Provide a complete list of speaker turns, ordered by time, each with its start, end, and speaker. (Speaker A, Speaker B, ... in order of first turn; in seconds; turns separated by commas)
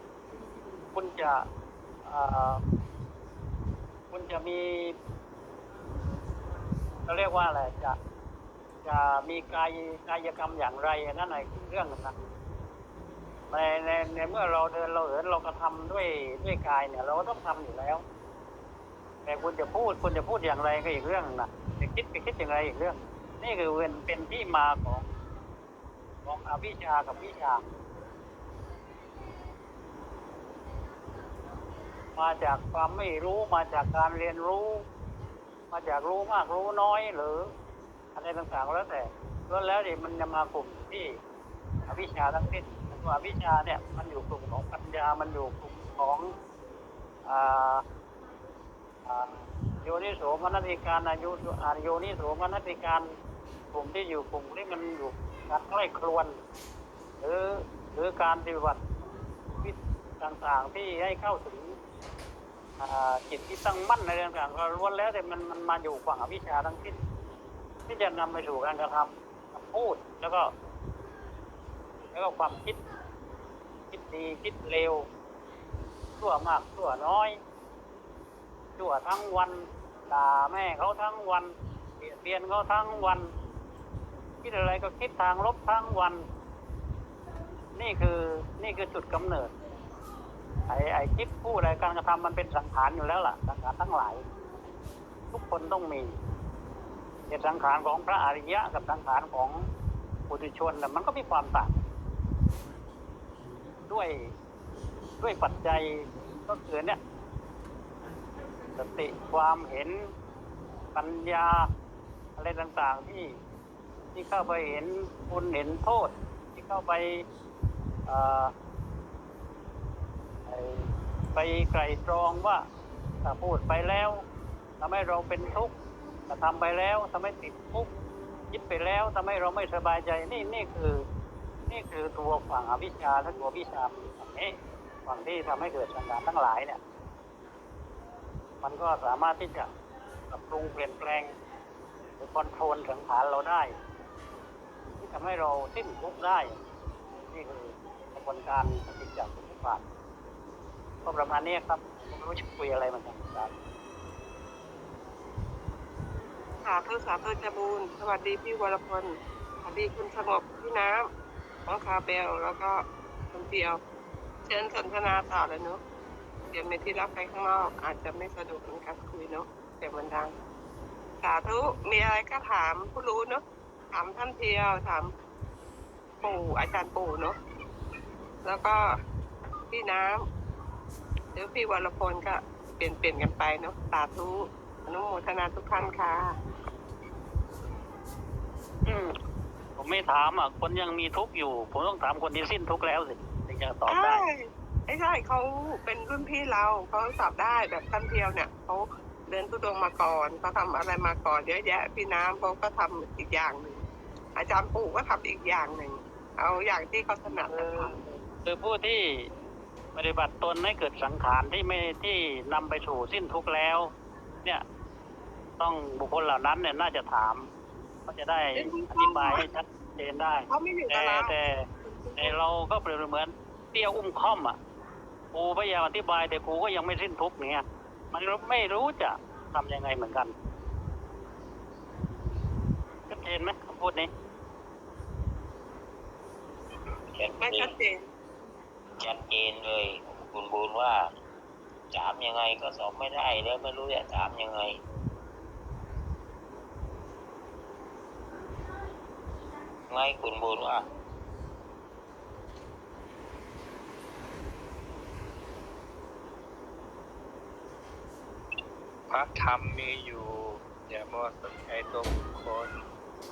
Speaker A: 0.9-1.5, Speaker A: 2.1-2.6, Speaker A: 4.1-5.0, Speaker A: 7.1-8.0, Speaker A: 8.8-12.2, Speaker A: 13.5-18.0, Speaker A: 19.3-25.1, Speaker A: 26.3-27.6, Speaker A: 32.2-34.9, Speaker A: 35.7-37.5, Speaker A: 38.2-41.2, Speaker A: 41.9-46.3, Speaker A: 47.3-47.8, Speaker A: 49.1-53.1, Speaker A: 53.7-56.4, Speaker A: 57.2-58.8, Speaker A: 59.6-61.8, Speaker A: 62.8-67.0, Speaker A: 67.9-70.5, Speaker A: 72.1-72.8, Speaker A: 73.9-75.1, Speaker A: 76.2-77.4, Speaker A: 78.8-83.3, Speaker A: 84.4-86.3, Speaker A: 87.8-89.5, Speaker A: 90.7-94.2, Speaker A: 95.3-96.2, Speaker A: 97.3-99.7, Speaker A: 100.3-101.8, Speaker A: 103.9-104.3, Speaker A: 105.2-107.0, Speaker A: 108.8-110.1, Speaker A: 111.0-111.7, Speaker A: 112.4-113.4, Speaker A: 114.2-117.2, Speaker A: 118.1-118.5, Speaker A: 120.5-122.7, Speaker A: 123.2-124.2, Speaker A: 124.8-125.7, Speaker A: 126.3-127.9, Speaker A: 128.5-131.0, Speaker A: 131.7-136.8, Speaker A: 138.6-139.7, Speaker A: 140.3-141.3, Speaker A: 142.2-143.8, Speaker A: 145.0-146.6, Speaker A: 147.2-149.8, Speaker A: 151.1-153.5, Speaker B: 156.7-161.1, Speaker B: 161.7-163.8, Speaker B: 164.5-165.8, Speaker B: 166.5-170.3, Speaker B: 171.2-175.1, Speaker B: 176.2-177.4, Speaker B: 178.4-179.0, Speaker B: 179.7-180.2, Speaker B: 181.3-186.4, Speaker A: 188.9-189.2, Speaker A: 189.8-194.2, Speaker B: 193.9-203.8, Speaker B: 204.4-207.9, Speaker A: 207.3-209.3, Speaker A: 209.9-213.9, Speaker A: 215.6-217.5, Speaker A: 218.1-224.6, Speaker B: 218.6-219.5, Speaker B: 220.5-222.3, Speaker A: 225.3-230.3, Speaker A: 233.1-234.1, Speaker C: 237.2-237.7, Speaker B: 237.4-238.0, Speaker C: 239.0-241.1, Speaker C: 241.9-244.8, Speaker C: 249.9-250.9, Speaker D: 259.1-262.7